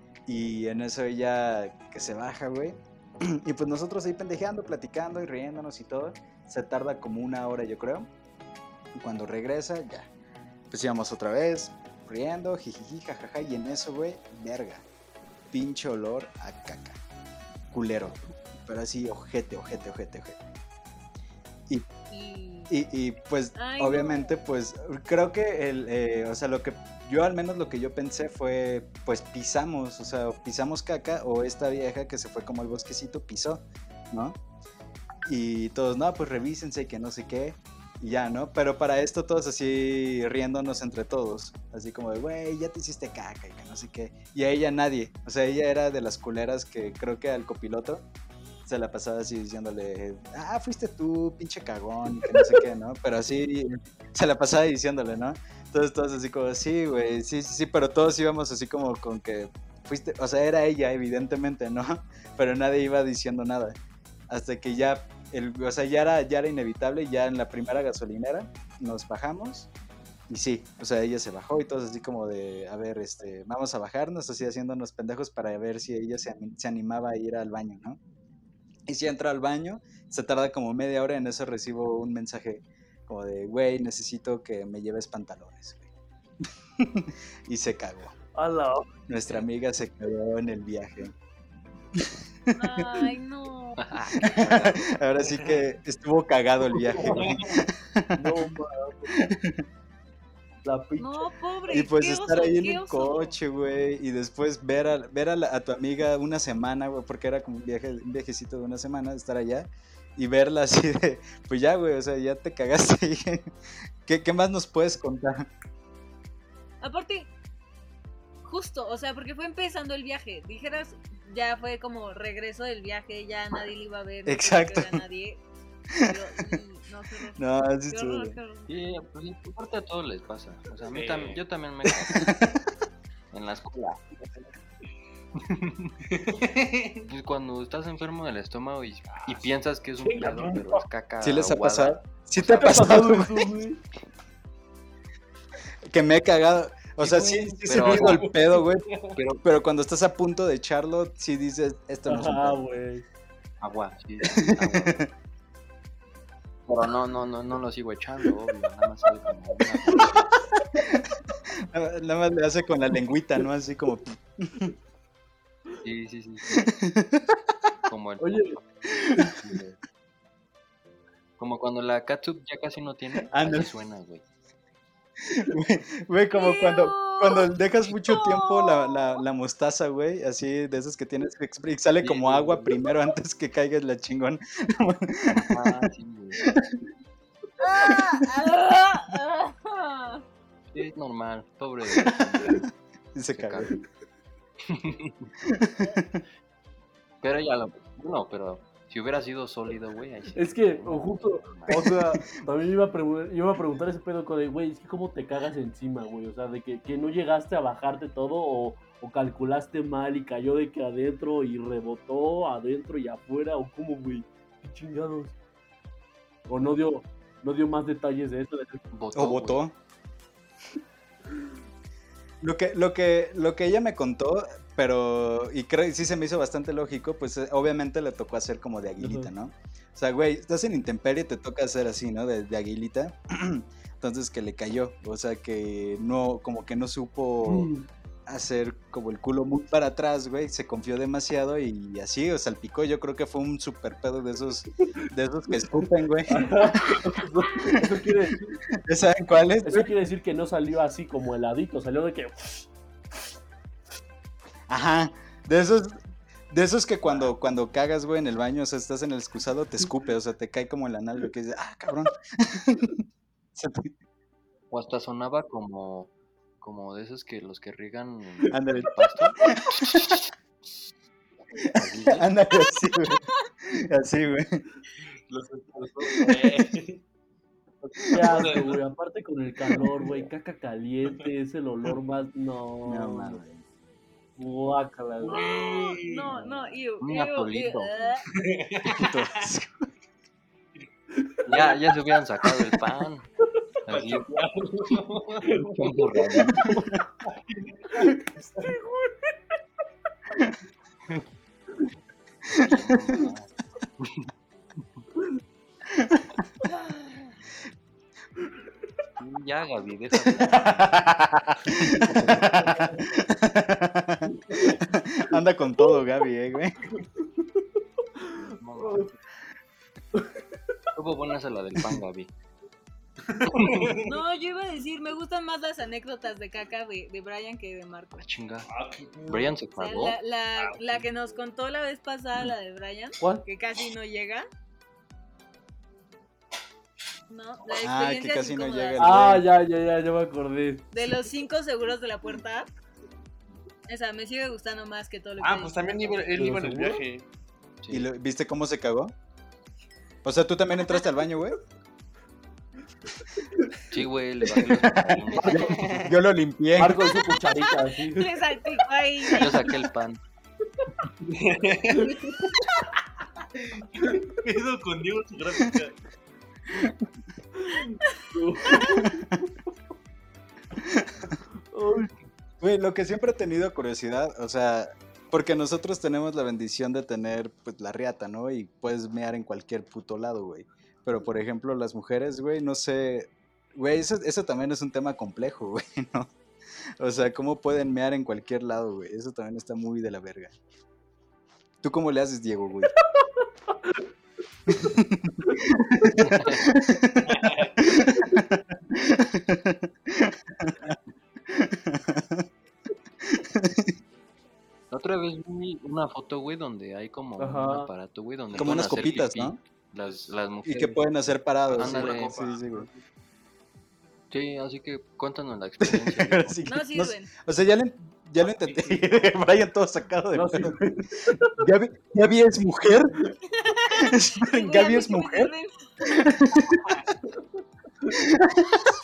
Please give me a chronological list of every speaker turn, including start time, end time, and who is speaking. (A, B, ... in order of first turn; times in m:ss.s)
0:00.3-0:08.1 A
0:09.0-0:10.1 A
0:10.7-0:14.8 A
0:15.5-0:17.0 A
0:17.7-0:20.4 A
0:22.1-0:22.7 B
0:22.7-0:34.4 A
0:23.6-0:24.4 B
0:35.2-0:48.0 A
0:48.7-1:03.8 A
1:04.3-1:09.7 A
1:10.3-1:18.0 A
1:18.9-1:25.9 A
1:26.8-1:28.1 A
1:28.4-1:28.9 C
1:29.1-1:31.1 A
1:32.0-1:33.1 A
1:32.5-1:34.4 B
1:33.8-1:34.9 D
1:34.2-1:38.5 A
1:35.3-1:35.6 E
1:36.9-1:37.4 C
1:37.0-1:37.6 E
1:38.2-1:39.2 C
1:39.2-1:39.6 A
1:40.6-1:41.3 C
1:41.0-1:43.4 B
1:41.7-1:53.5 A
1:54.0-1:55.5 A
1:56.8-1:57.3 B
1:58.4-2:05.4 B
2:04.3-2:05.0 A
2:06.0-2:06.6 A
2:06.0-2:08.7 B
2:07.4-2:08.4 A
2:08.7-2:12.4 D
2:10.9-2:11.4 E
2:11.9-2:12.7 A
2:13.3-2:14.5 D
2:15.4-2:16.0 D
2:16.1-2:17.1 E
2:17.1-2:23.1 D
2:19.1-2:19.5 E
2:20.0-2:20.8 E
2:21.2-2:23.6 A
2:22.6-2:23.8 C
2:25.9-2:28.9 A
2:27.0-2:28.6 D
2:27.7-2:29.2 E
2:29.2-2:29.4 D
2:29.4-2:32.6 A
2:32.1-2:33.0 C
2:33.6-2:35.1 D
2:34.2-2:35.1 A
2:36.7-2:40.3 D
2:40.8-2:41.0 A
2:41.5-2:44.7 A
2:45.8-2:46.7 D
2:46.5-2:47.4 A
2:47.9-2:48.6 D
2:48.2-2:48.6 C
2:48.9-2:49.4 A
2:49.3-2:49.8 D
2:51.4-2:54.2 D
2:53.3-2:53.7 A
2:55.2-3:05.9 A
2:56.3-2:59.2 B
3:02.0-3:02.8 D
3:05.3-3:06.5 D
3:06.4-3:06.8 A
3:07.6-3:10.2 B
3:10.7-3:12.7 D
3:11.9-3:13.7 A
3:13.3-3:13.7 D
3:14.7-3:15.3 D
3:15.4-3:16.2 A
3:17.2-3:21.9 D
3:20.4-3:35.4 C
3:21.8-3:22.2 A
3:36.5-3:38.8 C
3:38.9-3:39.6 D
3:39.2-3:39.8 A
3:42.4-3:57.7 A
3:49.0-3:49.3 C
3:57.4-3:57.9 C
3:58.3-4:08.1 A
4:06.3-4:08.5 C
4:08.7-4:10.0 A
4:09.6-4:12.7 C
4:14.7-4:16.0 A
4:16.5-4:23.0 A
4:23.6-4:23.9 A
4:24.7-4:30.1 D
4:28.5-4:28.9 A
4:29.4-4:30.2 A
4:31.7-4:34.6 A
4:31.8-4:32.3 D
4:35.3-4:37.0 E
4:36.0-4:36.5 A
4:37.8-4:43.4 C
4:38.2-4:38.8 E
4:42.9-4:43.6 A
4:44.4-4:45.5 C
4:45.2-4:46.4 E
4:45.4-4:48.2 B
4:47.0-4:47.9 D
4:48.2-4:49.5 E
4:49.0-4:49.8 A
4:51.2-4:51.6 C
4:51.5-4:51.8 E
4:51.5-4:53.3 D
4:53.8-4:54.3 D
4:53.9-4:56.0 E
4:55.8-4:56.8 D
4:57.3-4:58.7 E
4:58.6-4:59.3 C
5:02.5-5:02.8 A
5:02.6-5:03.5 D
5:04.0-5:04.3 D
5:05.9-5:06.4 A
5:09.2-5:10.8 D
5:10.3-5:16.8 A
5:11.9-5:12.4 D
5:14.5-5:14.8 C
5:17.0-5:17.6 C
5:18.2-5:19.1 C
5:18.4-5:19.2 D
5:20.1-5:20.4 C
5:21.0-5:22.3 D
5:23.2-5:24.2 E
5:23.5-5:24.0 D
5:24.1-5:28.2 B
5:28.2-5:28.7 D
5:28.6-5:29.6 E
5:29.3-5:30.2 D
5:29.8-5:34.4 B
5:30.6-5:31.1 E
5:33.2-5:33.4 C
5:37.3-5:39.3 B
5:37.8-5:39.5 A
5:39.0-5:40.9 C
5:40.9-5:42.7 B
5:43.9-5:46.3 B
5:45.4-5:47.3 E
5:46.3-5:47.0 C
5:47.8-5:48.1 D
5:47.9-5:49.1 A
5:50.2-5:51.6 A
5:53.4-5:53.7 C
5:53.9-5:56.1 D
5:54.6-5:57.2 A
5:55.4-5:55.9 C
5:56.8-5:58.4 C
5:58.1-5:59.8 B
5:59.3-6:00.2 D
6:01.2-6:02.5 E
6:02.1-6:02.8 B
6:03.6-6:06.0 E
6:07.6-6:09.5 C
6:08.7-6:09.0 B
6:08.9-6:09.2 A
6:10.8-6:11.4 A
6:11.7-6:12.1 C
6:12.6-6:26.3 A
6:27.0-6:30.5 A
6:31.8-6:32.9 A
6:33.1-6:33.5 C
6:34.8-6:41.0 A
6:36.3-6:36.7 D
6:37.2-6:38.0 E
6:41.5-6:42.5 A
6:43.2-6:44.0 A
6:44.9-6:51.1 D
6:47.4-6:47.9 C
6:48.6-6:49.6 A
6:50.0-6:50.4 E
6:50.6-6:52.9 A
6:51.7-6:53.0 E
6:51.7-6:52.4 D
6:54.3-6:56.6 D
6:55.8-7:00.8 A
6:56.7-6:57.3 B
6:58.4-6:59.3 E
7:00.3-7:01.6 C
7:01.6-7:03.2 A
7:03.5-7:05.9 B
7:03.9-7:05.5 A
7:06.0-7:07.0 A
7:08.1-7:08.9 A